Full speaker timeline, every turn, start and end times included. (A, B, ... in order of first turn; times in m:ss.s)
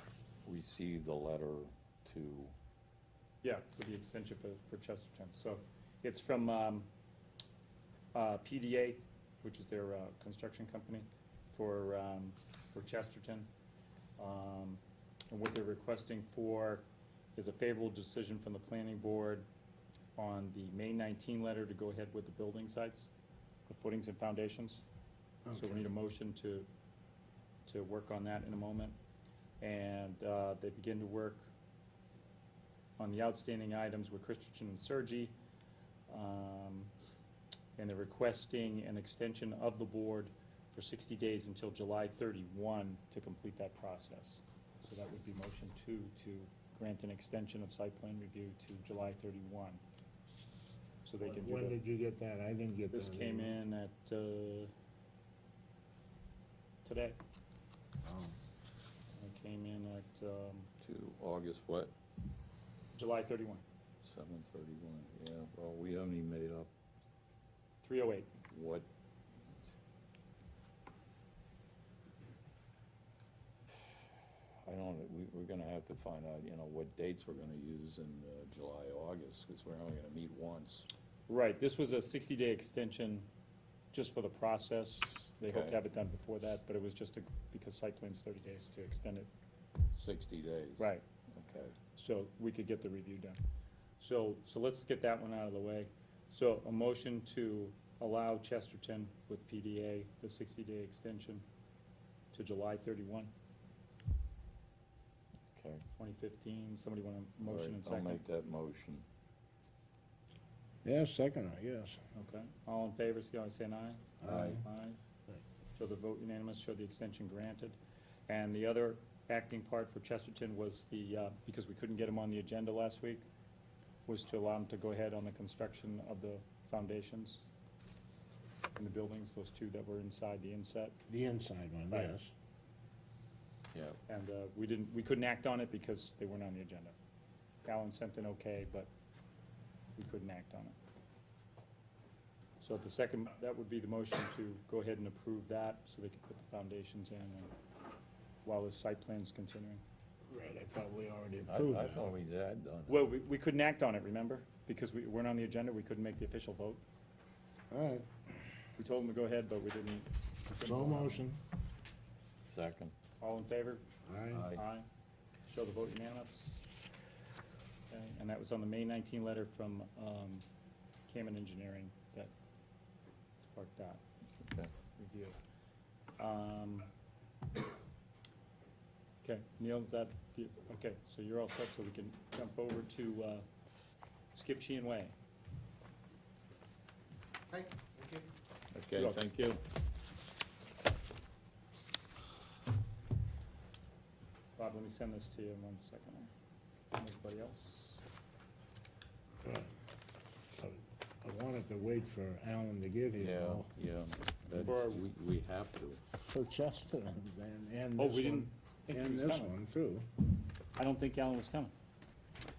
0:00.4-0:02.5 A
0:03.4-0:06.9 B
0:08.1-0:13.5 B
0:14.2-0:19.5 B
0:20.2-0:23.1 B
0:23.7-0:24.8 B
0:25.5-0:25.8 C
0:25.5-0:26.7 B
0:27.7-0:29.0 B
0:29.6-0:31.5 B
0:33.0-0:35.4 B
0:36.1-0:36.9 B
0:37.8-0:49.8 B
0:51.0-0:51.8 B
0:51.2-0:53.5 C
0:52.9-0:54.7 B
0:56.8-0:57.2 B
0:58.0-0:58.4 C
0:59.2-1:00.7 B
1:00.8-1:01.9 A
1:02.9-1:03.6 B
1:04.0-1:06.7 A
1:07.8-1:08.4 B
1:08.5-1:08.9 A
1:14.7-1:20.9 A
1:21.3-1:23.3 B
1:23.9-1:29.3 B
1:25.4-1:25.8 A
1:29.9-1:31.8 A
1:30.8-1:31.0 B
1:31.9-1:33.4 B
1:34.0-1:41.4 B
1:42.3-1:43.3 B
1:45.5-1:45.8 A
1:46.0-1:48.2 B
1:47.4-1:49.0 A
1:50.8-1:52.0 C
1:52.1-1:55.0 B
1:54.2-1:54.6 C
1:54.2-1:54.6 A
1:55.8-2:03.3 B
2:04.1-2:07.4 B
2:08.8-2:11.0 B
2:11.1-2:12.3 C
2:14.1-2:17.0 B
2:17.6-2:18.9 B
2:20.0-2:20.8 B
2:22.6-2:27.5 B
2:28.4-2:29.8 B
2:30.3-2:32.2 C
2:31.5-2:33.1 A
2:32.9-2:36.8 B
2:37.7-2:38.1 C
2:38.8-2:41.3 B
2:40.5-2:41.4 C
2:42.5-2:42.9 A
2:43.2-2:43.8 B
2:44.1-2:44.5 C
2:44.3-2:44.6 A
2:44.5-2:44.9 B
2:45.5-2:46.7 B
2:47.9-2:50.4 B
2:51.1-2:52.3 B
2:53.4-2:54.0 B
2:54.4-2:54.7 A
2:55.0-2:55.4 B
2:56.2-2:56.9 B
2:59.2-3:03.5 B
3:04.3-3:05.2 B
3:08.7-3:09.6 A
3:09.0-3:09.2 B
3:14.6-3:16.3 B
3:16.9-3:18.0 B
3:19.4-3:19.7 C
3:20.6-3:23.7 C
3:23.2-3:26.0 A
3:24.6-3:25.0 B
3:26.3-3:30.0 C
3:28.0-3:29.5 B
3:30.8-3:31.7 B